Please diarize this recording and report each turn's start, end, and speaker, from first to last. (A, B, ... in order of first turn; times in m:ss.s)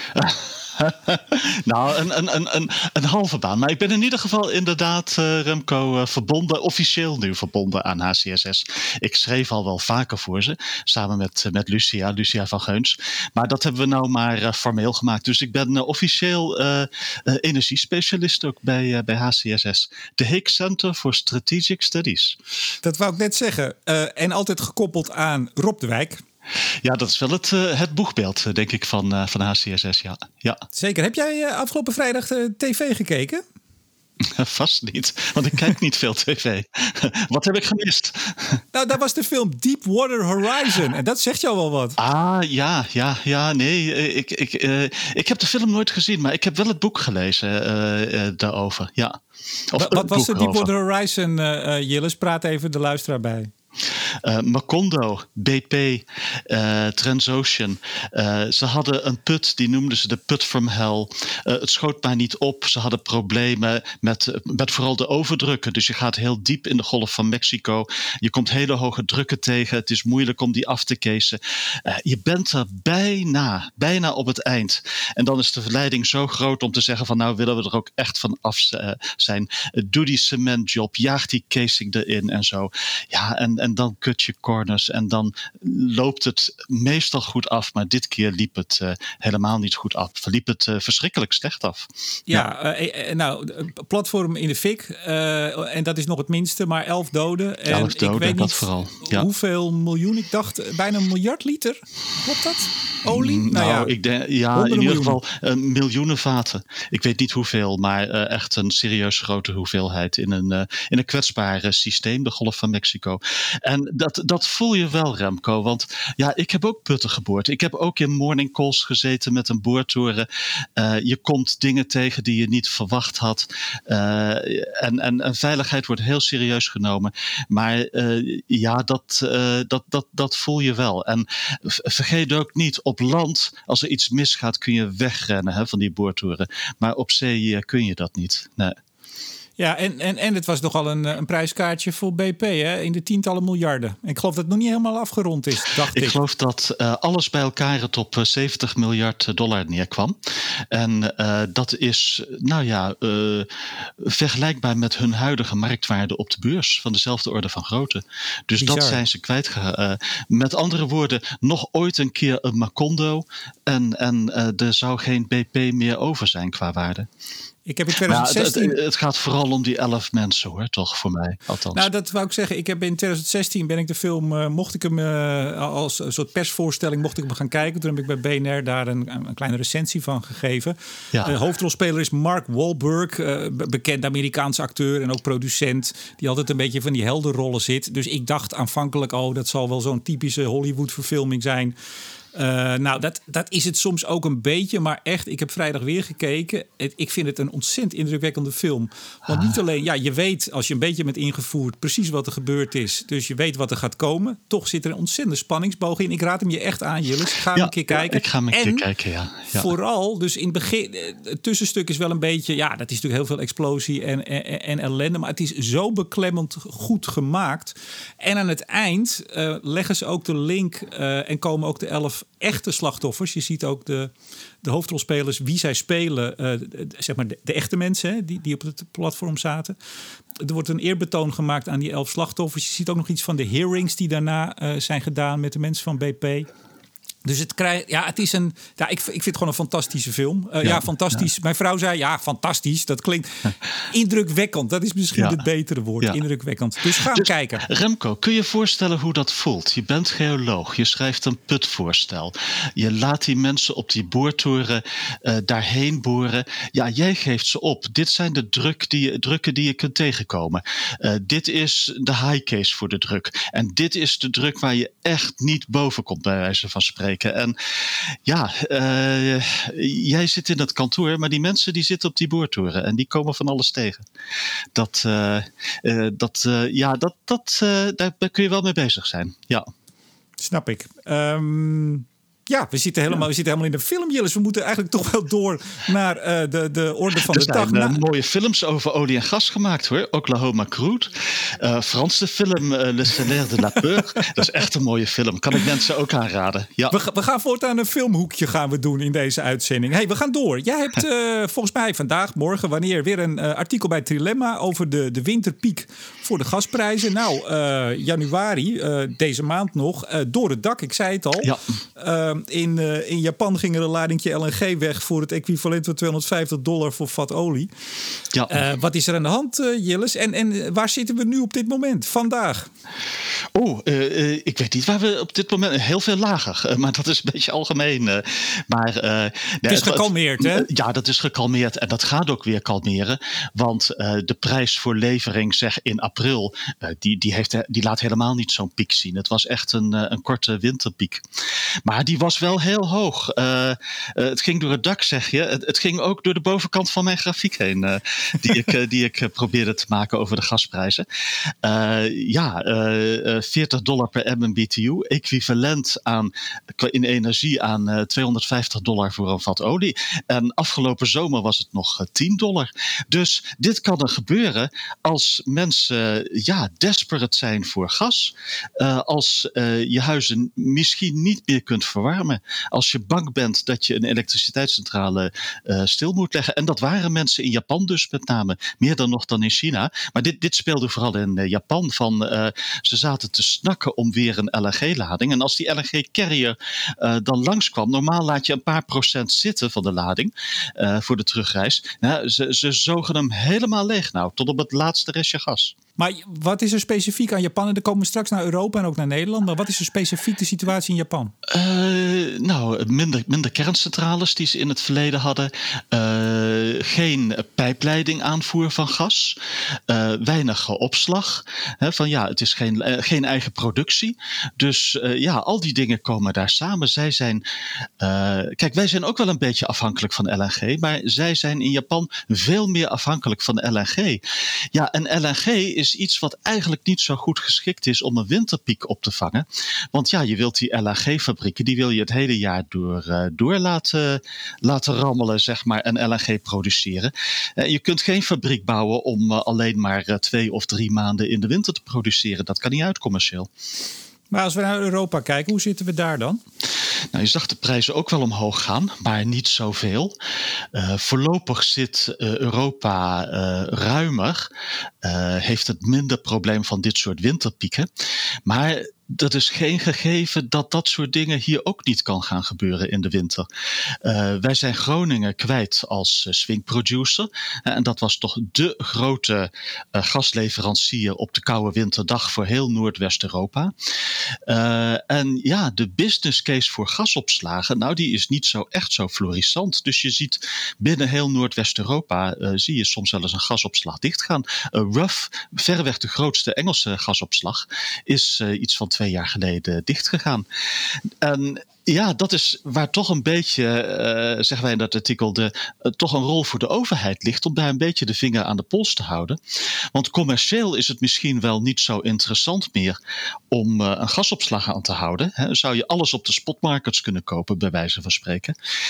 0:00.1-0:22.4 A
0:22.8-0:26.2 B
0:26.8-0:30.6 A
0:30.7-0:33.4 B
0:34.2-0:38.6 A
0:38.7-0:42.0 B
0:42.0-0:49.2 A
0:49.7-0:50.7 A
0:49.8-0:53.5 B
0:54.1-1:32.4 A
1:32.3-1:43.9 B
1:37.7-1:39.3 A
1:43.1-2:00.2 A
1:44.5-1:45.2 B
2:00.8-2:18.7 A
2:19.6-2:26.2 B
2:25.9-2:47.1 A
2:38.6-2:39.0 B
2:47.6-2:48.8 B
2:48.0-2:51.9 A
2:51.7-3:11.7 B
3:12.3-3:28.8 B
3:27.5-3:29.7 A
3:29.5-3:44.1 B
3:44.6-3:49.8 B
3:50.4-3:56.5 B
3:57.2-4:07.6 B
4:00.6-4:01.2 A
4:07.0-4:34.0 A
4:34.7-4:39.6 A
4:40.4-4:48.0 B
4:47.2-4:56.9 A
4:56.9-5:17.7 B
5:18.5-5:22.7 B
5:23.5-5:41.2 A
5:29.7-5:30.7 B
5:41.8-6:35.7 A
6:36.0-6:41.3 B
6:41.5-6:57.4 A
6:58.0-7:23.5 A
7:24.3-7:26.4 B
7:27.1-7:30.1 A
7:30.7-7:34.5 A
7:35.0-7:37.9 A
7:38.4-7:43.5 A
7:44.0-7:53.7 A
7:54.5-8:10.4 A
8:11.2-8:19.4 A
8:19.9-8:23.0 A
8:23.5-8:28.6 A